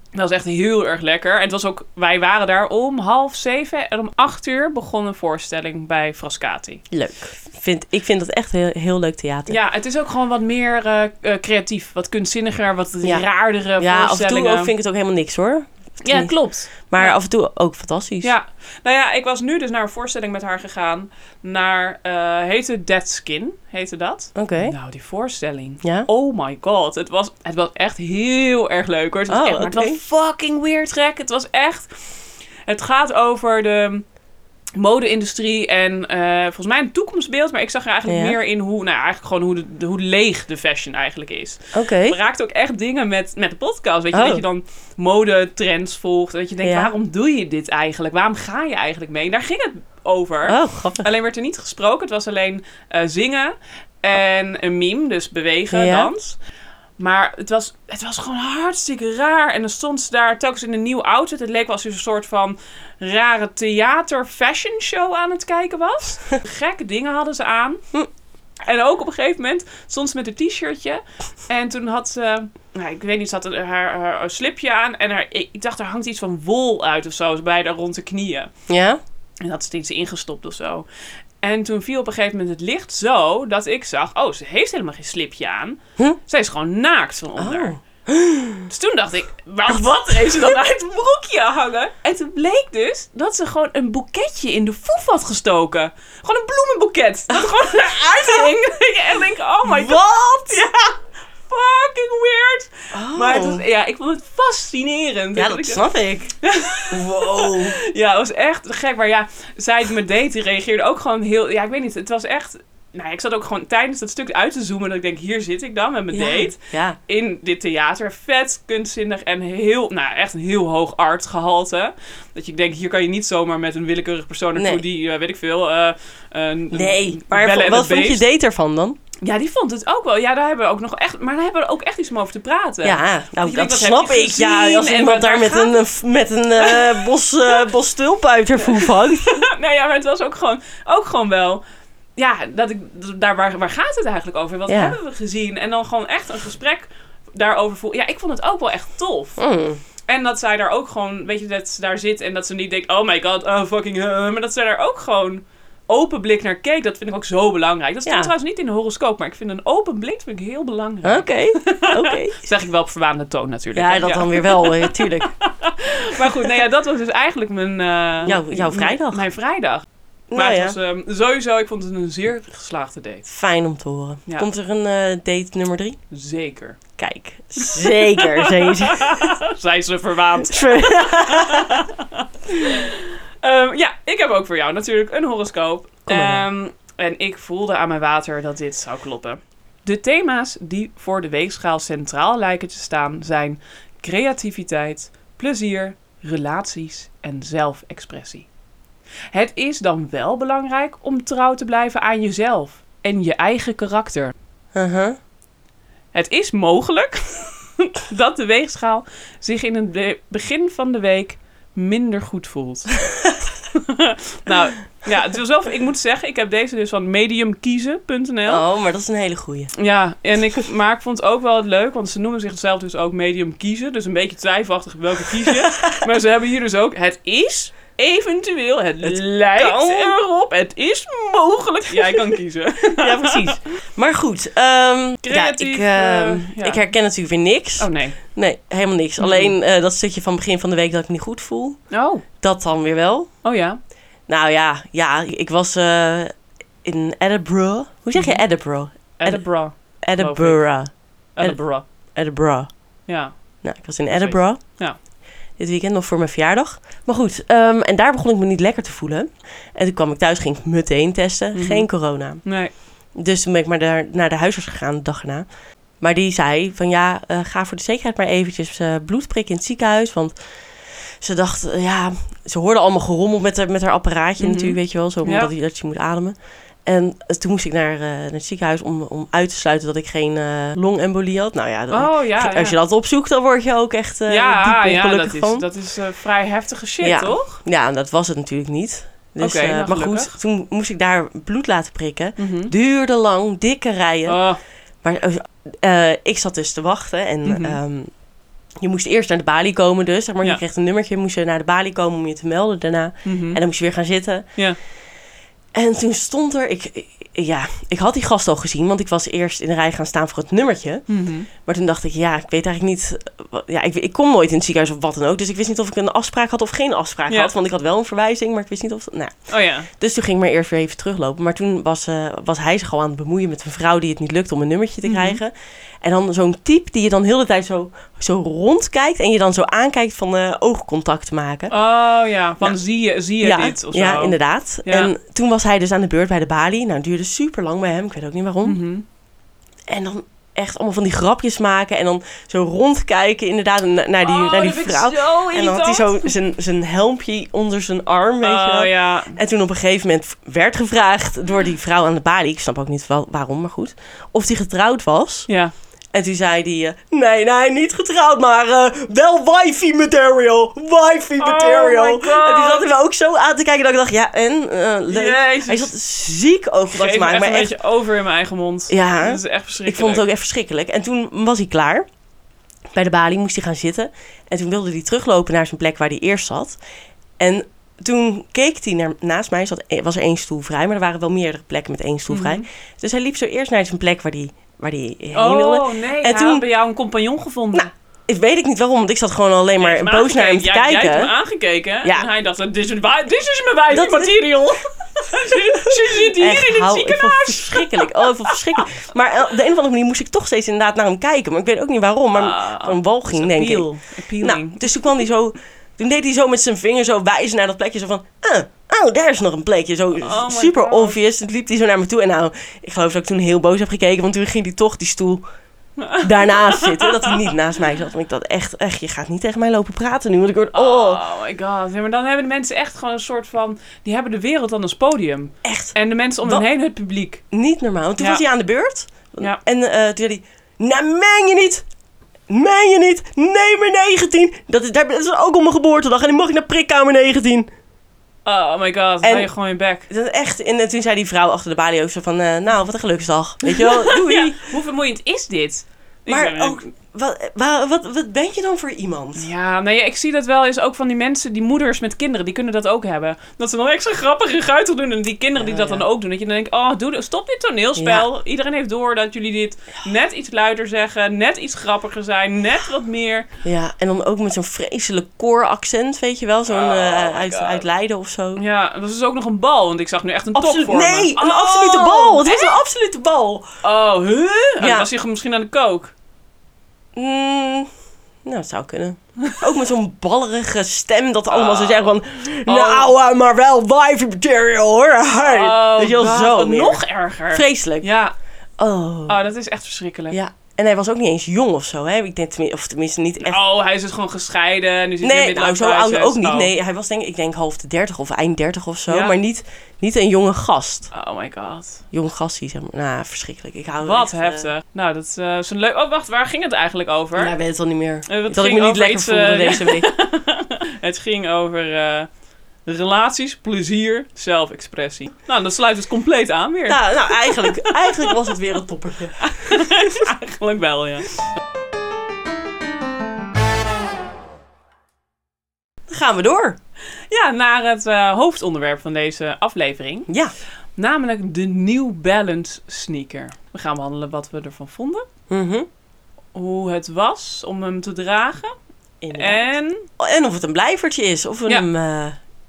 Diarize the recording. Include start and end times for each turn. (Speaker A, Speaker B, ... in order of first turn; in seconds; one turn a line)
Speaker A: 0.1-6.8
Speaker B: 6.9-9.6
Speaker A: 9.5-14.7
Speaker B: 13.8-18.3
Speaker A: 16.0-17.2
Speaker A: 18.2-34.0
Speaker B: 24.4-24.8
Speaker B: 25.8-26.1
Speaker B: 29.3-30.0
Speaker A: 34.8-56.4
Speaker B: 38.1-38.4
Speaker B: 41.7-42.2
Speaker B: 44.1-44.5
Speaker B: 46.6-46.9
Speaker B: 50.5-51.1
Speaker B: 55.7-56.1
Speaker A: 57.0-67.8
Speaker A: 68.7-78.5
Speaker B: 78.7-79.0
Speaker A: 79.4-80.9
Speaker A: 81.4-87.8
Speaker B: 87.4-88.7
Speaker A: 88.7-101.0
Speaker B: 97.3-98.5
Speaker B: 99.7-100.6
Speaker A: 101.5-105.8
Speaker B: 102.9-103.6
Speaker B: 105.3-106.3
Speaker A: 106.4-128.2
Speaker B: 106.9-107.8
Speaker B: 116.1-117.0
Speaker B: 124.6-124.8
Speaker B: 126.7-129.0
Speaker A: 129.2-135.8
Speaker B: 132.8-139.4
Speaker A: 136.6-137.1
Speaker A: 138.6-141.6
Speaker A: 142.2-149.4
Speaker B: 144.7-145.0
Speaker B: 149.4-149.8
Speaker A: 150.1-173.2
Speaker B: 158.1-158.3
Speaker B: 161.0-162.4
Speaker B: 163.7-165.3
Speaker B: 168.2-169.2
Speaker B: 170.3-170.8
Speaker B: 173.3-176.0
Speaker A: 176.1-176.8
Speaker B: 177.0-179.4
Speaker A: 177.6-198.5
Speaker B: 180.4-181.9
Speaker B: 186.1-186.5
Speaker A: 199.3-204.3
Speaker B: 204.8-205.2
Speaker A: 206.1-213.0
Speaker A: 213.7-218.6
Speaker B: 218.5-219.7
Speaker A: 219.8-233.6
Speaker B: 225.4-226.1
Speaker B: 229.0-230.2
Speaker B: 231.9-232.4
Speaker B: 232.9-241.8
Speaker A: 235.2-236.8
Speaker A: 237.8-238.2
Speaker A: 239.2-239.5
Speaker A: 241.9-242.2
Speaker B: 242.4-243.3
Speaker A: 243.4-243.8
Speaker B: 244.3-246.3
Speaker B: 246.8-249.5
Speaker A: 248.2-248.4
Speaker A: 249.2-250.7
Speaker B: 250.0-251.6
Speaker A: 251.3-251.8
Speaker B: 252.2-252.7
Speaker A: 253.1-253.4
Speaker B: 253.6-254.6
Speaker A: 254.1-255.0
Speaker B: 255.6-262.4
Speaker A: 261.5-261.9
Speaker A: 262.4-262.8
Speaker B: 263.1-265.5
Speaker B: 266.0-270.4
Speaker B: 271.2-285.7
Speaker A: 274.4-275.5
Speaker A: 281.9-282.8
Speaker A: 284.3-287.6
Speaker B: 287.0-294.4
Speaker A: 289.4-290.4
Speaker A: 292.4-292.7
Speaker A: 294.3-294.6
Speaker B: 295.0-298.1
Speaker A: 297.4-297.8
Speaker B: 298.8-304.5
Speaker A: 303.2-303.6
Speaker B: 305.7-311.1
Speaker A: 311.1-311.5
Speaker B: 311.6-319.4
Speaker A: 319.5-319.9
Speaker B: 319.9-331.7
Speaker A: 325.1-325.4
Speaker A: 331.7-335.1
Speaker B: 333.4-338.8
Speaker A: 338.6-339.1
Speaker B: 339.9-355.5
Speaker A: 344.2-346.3
Speaker A: 348.4-349.4
Speaker A: 355.5-355.7
Speaker B: 356.1-367.8
Speaker A: 361.4-362.9
Speaker A: 365.1-365.9
Speaker A: 366.9-370.2
Speaker B: 368.9-372.1
Speaker B: 372.9-376.8
Speaker B: 377.4-386.6
Speaker A: 382.3-382.6
Speaker A: 385.3-387.9
Speaker B: 387.7-391.3
Speaker A: 389.8-398.9
Speaker B: 393.9-394.7
Speaker B: 395.4-415.4
Speaker A: 402.3-405.1
Speaker A: 410.2-411.2
Speaker A: 416.0-417.5
Speaker B: 416.2-421.2
Speaker A: 420.7-427.4
Speaker B: 425.6-426.6
Speaker B: 427.5-431.9
Speaker B: 432.5-437.7
Speaker A: 438.4-440.1
Speaker B: 439.2-439.5
Speaker B: 440.1-444.7
Speaker A: 443.7-446.9
Speaker B: 446.3-449.5
Speaker A: 449.4-463.5
Speaker B: 455.6-456.1
Speaker B: 458.0-458.3
Speaker B: 463.6-468.6
Speaker A: 466.7-467.8
Speaker A: 468.6-472.8
Speaker B: 470.5-473.7
Speaker A: 473.8-476.1
Speaker B: 474.8-475.1
Speaker B: 477.1-477.9
Speaker B: 478.4-488.1
Speaker A: 481.5-482.1
Speaker A: 482.6-483.1
Speaker A: 485.4-488.4
Speaker B: 488.8-489.4
Speaker A: 489.3-490.4
Speaker B: 490.3-493.6
Speaker A: 493.4-496.7
Speaker B: 495.2-501.1
Speaker A: 499.1-499.3
Speaker A: 501.1-502.0
Speaker B: 502.1-504.7
Speaker A: 504.0-507.5
Speaker B: 507.4-510.1
Speaker A: 508.3-512.3
Speaker A: 512.9-518.5
Speaker B: 516.9-520.3
Speaker A: 519.4-521.5
Speaker B: 526.1-526.8
Speaker A: 527.3-530.3
Speaker B: 530.3-530.5
Speaker A: 531.0-535.2
Speaker B: 535.5-535.9
Speaker A: 536.5-538.7
Speaker B: 539.2-542.4
Speaker A: 539.3-540.1